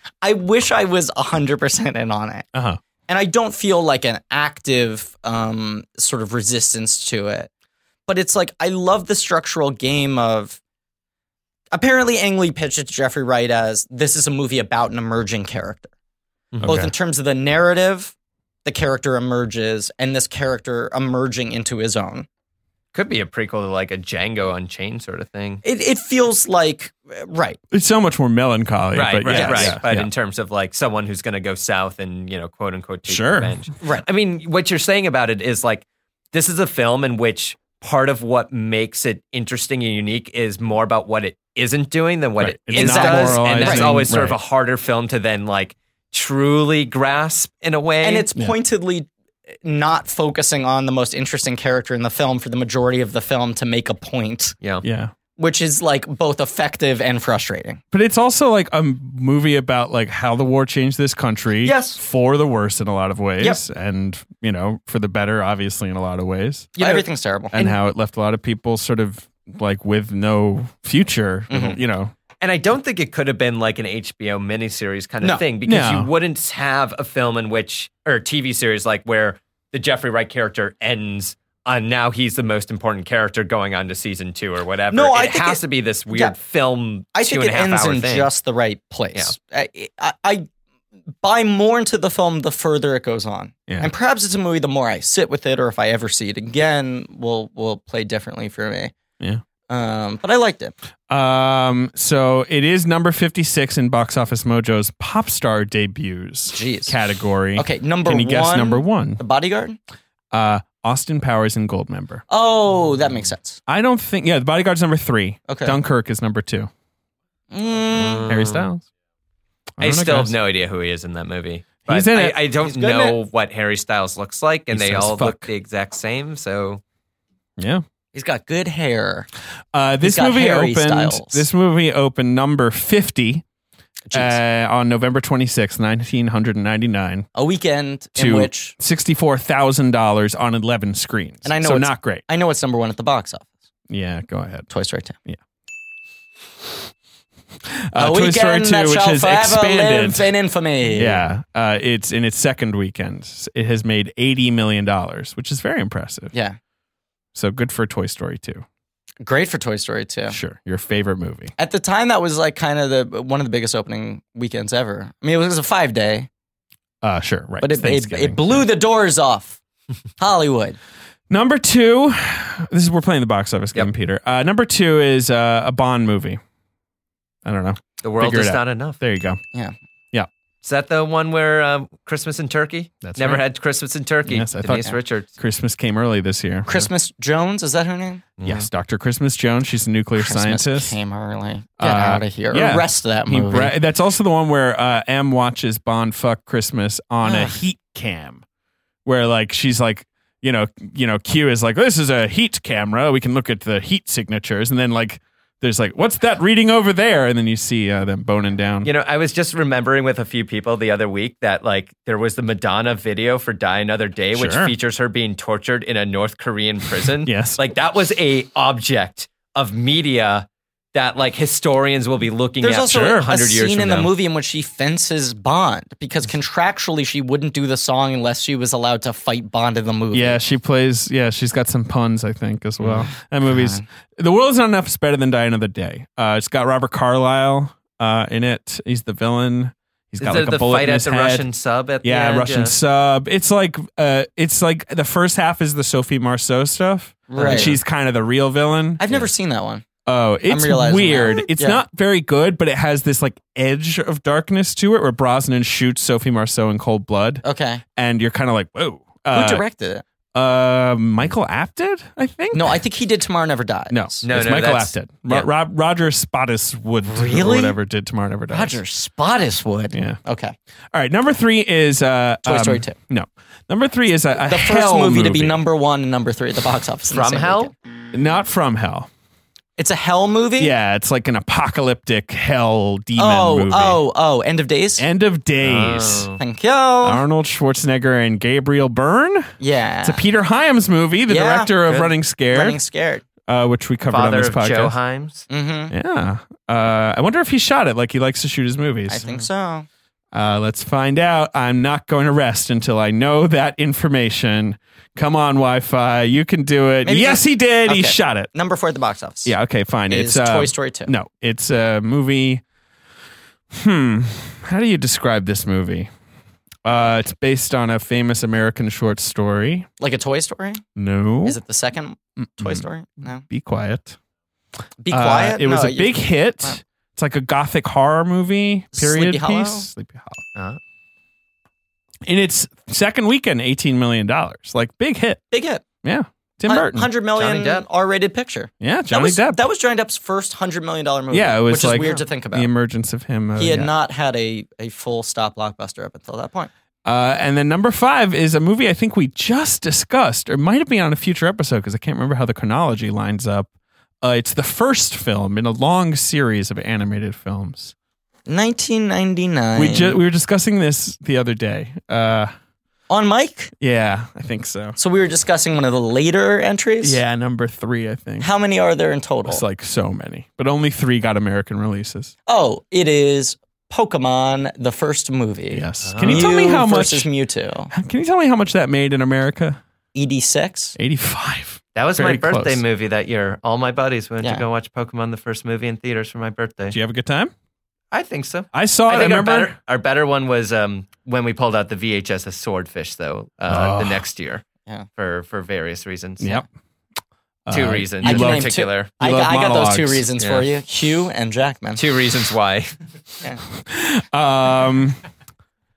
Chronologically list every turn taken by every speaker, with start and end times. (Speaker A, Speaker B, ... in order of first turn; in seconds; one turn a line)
Speaker A: 0.2-2.5
Speaker B: 2.5-2.8
Speaker A: 3.1-7.5
Speaker A: 8.1-10.6
Speaker A: 11.7-15.9
Speaker C: 16.5-16.8
Speaker B: 16.6-16.9
Speaker A: 16.6-18.1
Speaker A: 18.6-22.3
Speaker C: 22.9-25.6
Speaker A: 25.6-27.6
Speaker B: 27.7-30.1
Speaker C: 28.9-48.3
Speaker A: 29.3-29.8
Speaker B: 33.1-33.5
Speaker B: 42.4-44.4
Speaker A: 42.7-44.0
Speaker A: 48.0-49.1
Speaker A: 49.6-54.5
Speaker B: 54.8-55.1
Speaker A: 55.4-57.8
Speaker B: 57.9-66.7
Speaker A: 61.6-62.0
Speaker C: 66.8-67.0
Speaker A: 66.8-67.7
Speaker B: 67.5-72.1
Speaker A: 71.5-71.8
Speaker C: 72.4-88.3
Speaker B: 75.7-76.1
Speaker A: 84.9-86.3
Speaker A: 87.1-90.5
Speaker A: 91.2-98.9
Speaker A: 99.7-100.7
Speaker B: 101.1-109.2
Speaker A: 106.5-107.0
Speaker A: 107.5-109.8
Speaker B: 110.3-112.2
Speaker A: 112.3-113.6
Speaker B: 113.7-116.7
Speaker A: 115.5-115.8
Speaker A: 117.5-118.3
Speaker C: 117.9-118.7
Speaker B: 118.3-118.8
Speaker B: 119.8-120.3
Speaker C: 119.8-126.8
Speaker B: 121.9-122.4
Speaker A: 122.6-123.2
Speaker B: 124.7-125.5
Speaker B: 127.6-127.8
Speaker A: 128.1-129.3
Speaker B: 129.7-133.4
Speaker A: 130.0-131.4
Speaker A: 134.1-134.4
Speaker B: 134.1-137.3
Speaker A: 137.3-138.7
Speaker B: 138.2-142.2
Speaker A: 141.4-143.5
Speaker B: 143.9-144.7
Speaker A: 144.7-145.2
Speaker B: 147.7-150.3
Speaker A: 147.9-151.2
Speaker B: 150.9-156.3
Speaker A: 156.3-156.6
Speaker B: 157.3-158.6
Speaker A: 159.2-160.3
Speaker B: 160.3-161.5
Speaker A: 161.6-166.3
Speaker B: 167.0-168.7
Speaker A: 167.6-169.6
Speaker A: 170.2-170.8
Speaker B: 171.3-176.4
Speaker B: 177.4-179.4
Speaker C: 178.0-179.0
Speaker C: 180.6-185.3
Speaker B: 183.0-183.4
Speaker B: 184.3-186.9
Speaker A: 186.7-188.2
Speaker C: 188.4-188.7
Speaker B: 188.4-190.9
Speaker A: 190.2-193.7
Speaker B: 191.8-198.4
Speaker A: 197.2-197.6
Speaker B: 199.0-208.9
Speaker C: 208.8-224.1
Speaker B: 214.3-214.7
Speaker B: 217.2-217.6
Speaker A: 222.6-230.4
Speaker B: 230.1-241.5
Speaker C: 232.8-233.1
Speaker A: 233.4-233.8
Speaker C: 240.2-242.7
Speaker B: 242.0-249.0
Speaker A: 247.3-247.7
Speaker C: 247.3-247.8
Speaker A: 249.0-249.8
Speaker B: 250.1-257.4
Speaker A: 250.5-251.8
Speaker A: 257.4-257.8
Speaker B: 257.9-259.6
Speaker A: 259.3-260.0
Speaker B: 260.3-262.8
Speaker A: 262.5-264.2
Speaker B: 263.9-268.8
Speaker C: 264.2-265.5
Speaker A: 267.0-267.8
Speaker A: 268.5-270.6
Speaker B: 269.9-270.2
Speaker B: 270.9-275.6
Speaker A: 272.4-273.0
Speaker A: 274.5-277.7
Speaker C: 277.1-277.7
Speaker B: 278.1-279.1
Speaker A: 279.8-280.7
Speaker B: 280.6-284.0
Speaker A: 283.2-285.0
Speaker B: 285.0-286.3
Speaker C: 285.6-286.4
Speaker A: 286.4-287.2
Speaker B: 287.0-292.8
Speaker A: 289.6-290.2
Speaker A: 291.3-291.7
Speaker A: 292.5-293.2
Speaker B: 293.4-294.9
Speaker C: 294.1-295.4
Speaker A: 295.5-295.9
Speaker B: 295.9-299.2
Speaker A: 299.1-299.9
Speaker B: 300.3-308.5
Speaker A: 307.0-309.5
Speaker B: 309.4-312.6
Speaker A: 310.1-311.1
Speaker B: 313.7-316.1
Speaker B: 316.8-319.9
Speaker A: 320.0-320.8
Speaker B: 320.9-321.6
Speaker A: 321.4-323.4
Speaker B: 322.4-322.8
Speaker B: 323.4-324.2
Speaker A: 325.0-326.8
Speaker B: 325.1-330.4
Speaker A: 328.9-329.9
Speaker B: 332.2-335.4
Speaker A: 335.5-335.8
Speaker B: 336.0-337.1
Speaker A: 336.7-342.7
Speaker C: 337.4-337.8
Speaker B: 338.8-339.6
Speaker B: 341.3-343.9
Speaker A: 343.6-346.7
Speaker B: 347.0-353.7
Speaker B: 354.2-357.9
Speaker A: 358.5-360.2
Speaker B: 359.8-362.5
Speaker A: 363.1-363.7
Speaker B: 363.8-365.0
Speaker A: 365.0-367.2
Speaker B: 367.0-368.5
Speaker A: 368.4-369.6
Speaker B: 369.4-372.3
Speaker A: 372.5-377.9
Speaker B: 375.7-377.3
Speaker C: 376.0-376.5
Speaker B: 377.9-379.8
Speaker A: 380.1-380.9
Speaker B: 380.9-382.8
Speaker C: 381.9-387.0
Speaker B: 386.9-387.5
Speaker C: 388.1-394.6
Speaker B: 388.7-389.7
Speaker B: 393.7-394.2
Speaker C: 395.2-396.5
Speaker B: 396.4-396.6
Speaker B: 397.6-400.2
Speaker C: 397.7-399.1
Speaker A: 398.2-402.0
Speaker C: 400.4-400.6
Speaker C: 401.9-402.9
Speaker B: 403.8-405.2